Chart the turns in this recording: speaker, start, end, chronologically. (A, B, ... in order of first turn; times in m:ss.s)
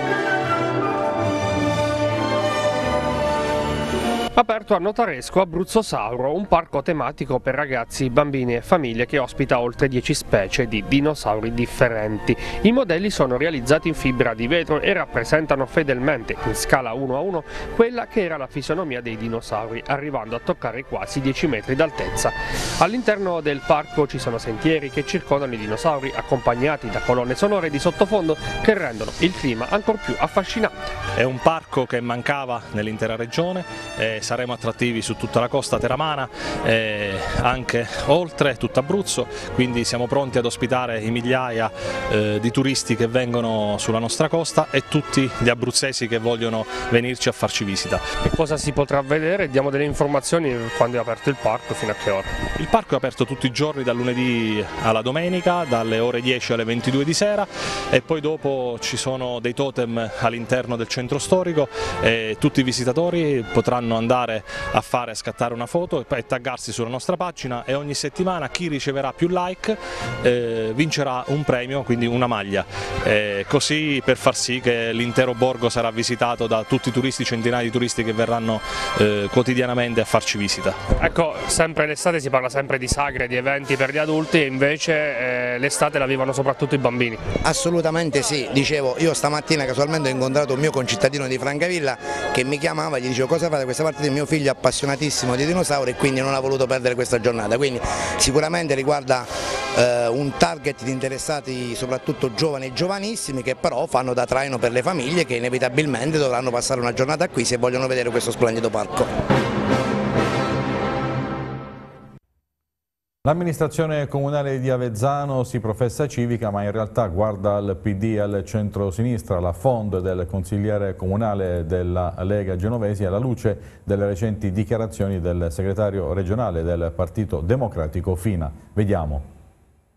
0:04.4-0:30.7 A
0:31.2-0:48.0 B
0:48.2-0:52.3 A
0:52.6-1:20.8 B
1:21.0-1:27.2 A
1:27.4-1:49.1 C
1:53.2-2:09.2 D